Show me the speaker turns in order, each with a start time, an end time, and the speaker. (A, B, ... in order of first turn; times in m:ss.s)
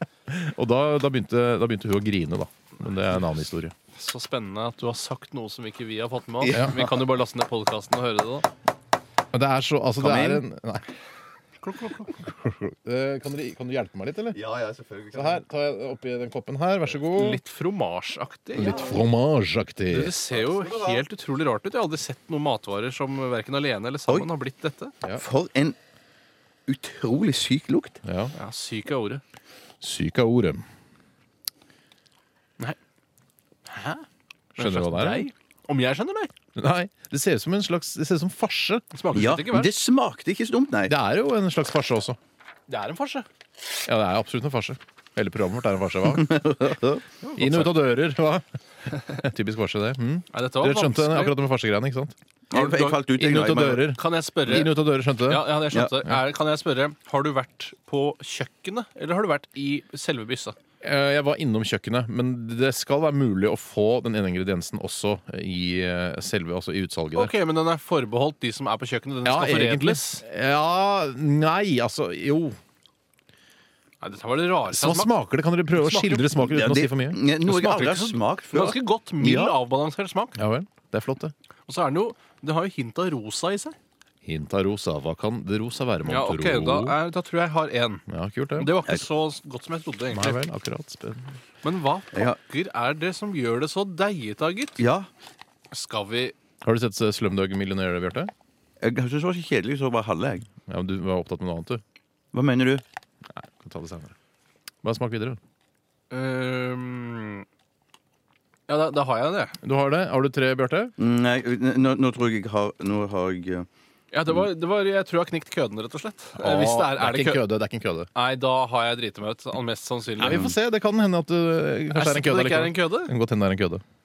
0:00.3-0:03.7 A
0:03.9-0:08.5 B
0:06.5-0:06.8 A
0:09.3-0:10.9 A
0:10.0-0:10.4 C
0:11.6-0:12.2 B
0:12.2-0:14.4 A
0:14.4-0:15.4 C
0:15.1-0:17.4 A
0:17.0-0:18.9 B
0:18.6-0:20.2 A
0:19.9-0:24.9 B
0:20.3-0:21.0 C
0:25.2-0:25.8 C
0:26.7-0:28.0 C
0:28.0-0:28.3 A
0:28.3-0:29.2 B
0:29.8-0:30.6 A
0:33.7-0:34.1 B
0:34.6-0:35.3 A
0:34.6-0:36.3 B
0:36.6-0:38.9 A
0:38.9-0:39.7 B
0:39.1-0:40.9 C
0:40.9-0:42.2 A
0:42.7-0:43.3 B
0:43.9-0:46.8 A
0:46.7-0:47.0 C
0:47.3-0:47.7 B
0:47.4-0:52.2 A
0:50.3-0:51.4 B
0:52.5-0:53.8 C
0:52.5-0:53.1 B
0:53.1-0:56.2 A
0:53.8-1:00.6 B
1:00.8-1:07.3 A
1:07.2-1:10.2 B
1:09.2-1:12.6 A
1:14.0-1:15.1 B
1:14.7-1:17.2 A
1:15.8-1:16.3 B
1:16.4-1:19.6 C
1:17.5-1:20.4 B
1:20.4-1:21.3 A
1:21.7-1:23.8 B
1:24.2-1:27.0 A
1:26.1-1:28.0 B
1:28.1-1:28.8 A
1:28.6-1:30.4 B
1:30.1-1:31.4 A
1:31.6-1:34.8 B
1:34.8-1:35.1 C
1:35.7-1:36.4 B
1:36.6-1:38.3 A
1:38.8-1:40.4 C
1:40.7-1:41.8 A
1:42.3-1:42.8 C
1:43.4-1:44.2 A
1:44.8-1:45.4 A
1:46.1-1:47.5 B
1:48.7-1:49.6 B
1:49.6-1:51.0 A
1:51.0-1:53.7 C
1:54.1-1:57.4 B
1:56.4-1:58.1 A
1:58.1-2:00.6 B
2:00.2-2:03.8 A
2:01.9-2:03.1 B